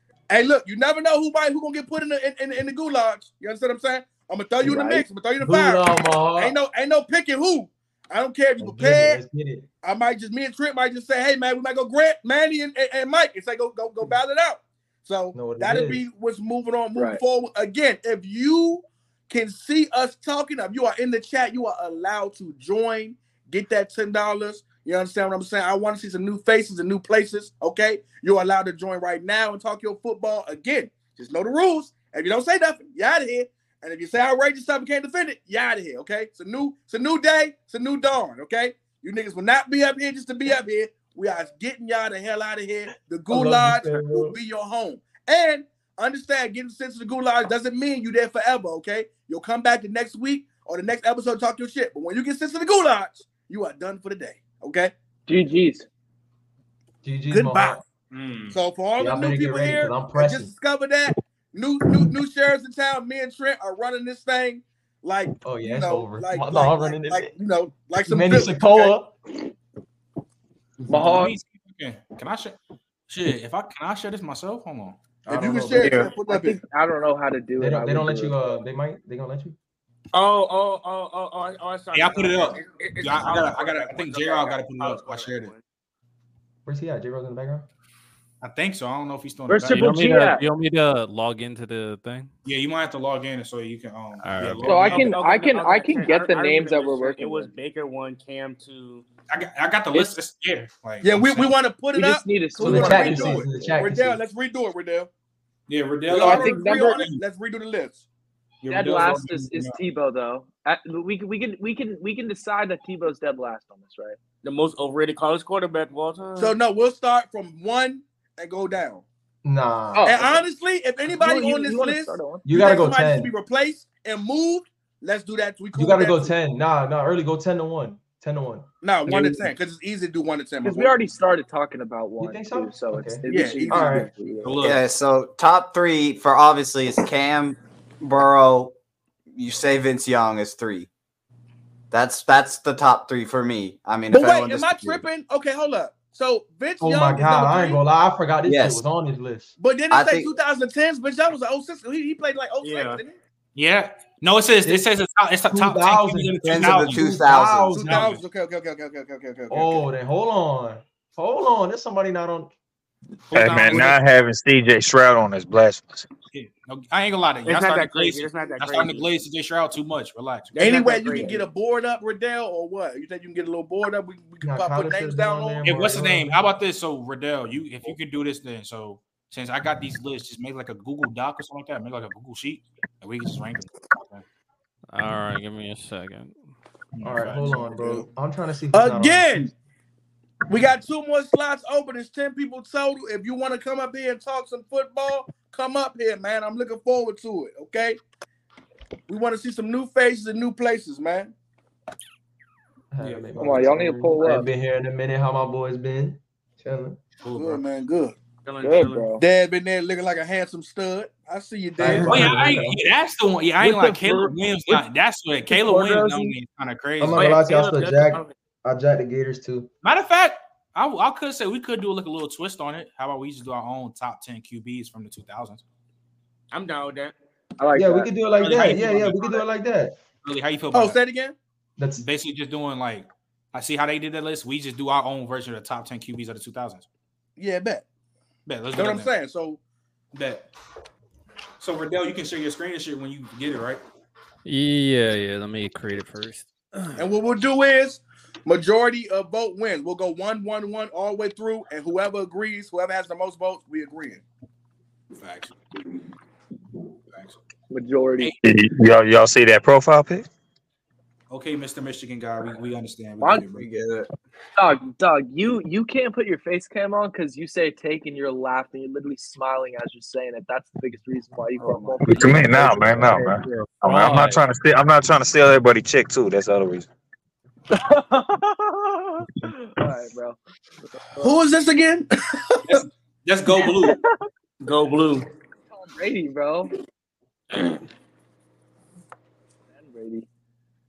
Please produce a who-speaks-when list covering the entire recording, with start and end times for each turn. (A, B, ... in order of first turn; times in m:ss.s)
0:00.3-0:09.2 A
0:04.6-0:05.0 B
0:04.6-0:06.6 C
0:08.6-0:09.6 C
0:09.8-0:54.9 A
0:15.3-0:16.0 C
0:16.9-0:17.2 B
0:43.3-0:44.4 C
0:55.3-0:55.8 B
0:57.0-0:57.8 C
0:57.3-0:57.8 A
0:58.1-0:58.6 D
0:58.5-1:08.9 A
0:59.0-1:00.5 C
1:05.4-1:07.3 C
1:08.0-1:09.2 C
1:10.9-1:15.0 E
1:10.9-1:11.3 B
1:15.2-1:16.0 C
1:15.3-1:16.6 A
1:16.1-1:18.6 B
1:17.6-1:19.6 C
1:20.1-1:25.6 D
1:21.9-1:25.5 E
1:26.6-1:27.6 C
1:28.4-1:30.0 E
1:29.5-1:30.4 B
1:29.7-1:32.3 F
1:32.4-1:35.1 E
1:34.2-1:35.0 F
1:34.6-1:37.5 B
1:35.0-1:39.0 D
1:39.3-1:41.5 E
1:41.0-1:45.1 A
1:41.9-1:43.8 B
1:42.6-1:44.2 C
1:45.7-1:47.2 E
1:46.1-1:48.0 A
1:46.1-1:47.1 B
1:48.6-1:49.8 E
1:48.7-1:54.2 B
1:54.4-1:56.6 D
1:56.4-1:59.0 A
1:59.4-2:00.1 C
1:59.9-2:00.4 B
2:00.0-2:06.3 A
2:01.1-2:02.5 B
2:02.4-2:03.3 C
2:05.7-2:08.6 C
2:08.8-2:10.9 A
2:10.6-2:14.6 B
2:12.2-2:14.1 C
2:13.2-2:14.1 A
2:14.4-2:14.8 E
2:14.6-2:18.7 G
2:19.3-2:20.9 G
2:21.9-2:25.0 G
2:24.1-2:27.8 A
2:26.8-2:29.5 C
2:28.4-2:28.8 G
2:29.6-2:33.2 A
2:29.9-2:30.3 G
2:32.6-2:33.0 D
2:33.6-2:37.1 E
2:35.5-2:38.1 C
2:36.4-2:37.8 G
2:37.8-2:39.8 A
2:37.8-2:38.2 E
2:39.5-2:42.5 C
2:43.3-2:44.0 E
2:43.3-2:46.1 H
2:46.3-2:50.6 E
2:47.4-2:49.1 D
2:50.5-2:51.4 D
2:50.6-2:55.7 A
2:54.4-2:56.4 C
2:55.6-3:04.2 E
3:04.9-3:06.4 F
3:06.9-3:07.7 E
3:07.0-3:09.4 C
3:07.4-3:08.1 A
3:08.7-3:09.5 A
3:10.5-3:18.0 A
3:19.1-3:21.3 A
3:22.9-3:27.0 C
3:23.0-3:23.5 E
3:23.4-3:24.5 B
3:27.2-3:27.6 E
3:27.3-3:28.2 A
3:28.4-3:29.2 D
3:28.6-3:29.2 B
3:29.2-3:32.4 A
3:31.8-3:32.8 C
3:31.9-3:37.3 E
3:33.6-3:34.8 B
3:35.5-3:36.4 B
3:37.0-3:39.7 C
3:37.1-3:38.3 D
3:39.8-3:45.6 E
3:46.5-3:47.1 D
3:47.6-3:48.1 B
3:47.8-3:49.9 C
3:48.4-3:49.4 E
3:50.2-3:51.0 E
3:50.7-3:51.4 A
3:51.8-3:52.0 C
3:52.0-3:56.9 E
3:57.4-3:57.8 A
3:58.4-3:59.1 E
3:58.7-3:59.6 A
4:00.1-4:00.5 E
4:01.6-4:03.8 E
4:04.4-4:07.0 F
4:07.0-4:14.2 A
4:15.2-4:15.5 E
4:17.7-4:18.3 B
4:18.4-4:20.2 H
4:21.3-4:23.7 E
4:23.2-4:23.4 B
4:23.5-4:24.1 G
4:24.6-4:33.3 B
4:32.0-4:36.9 H
4:32.5-4:34.5 F
4:37.7-4:40.4 B
4:40.9-4:41.4 B
4:41.2-4:42.8 A
4:42.7-4:44.0 E
4:43.5-4:44.3 B
4:44.6-4:45.3 D
4:45.7-4:46.7 B
4:49.7-4:50.2 B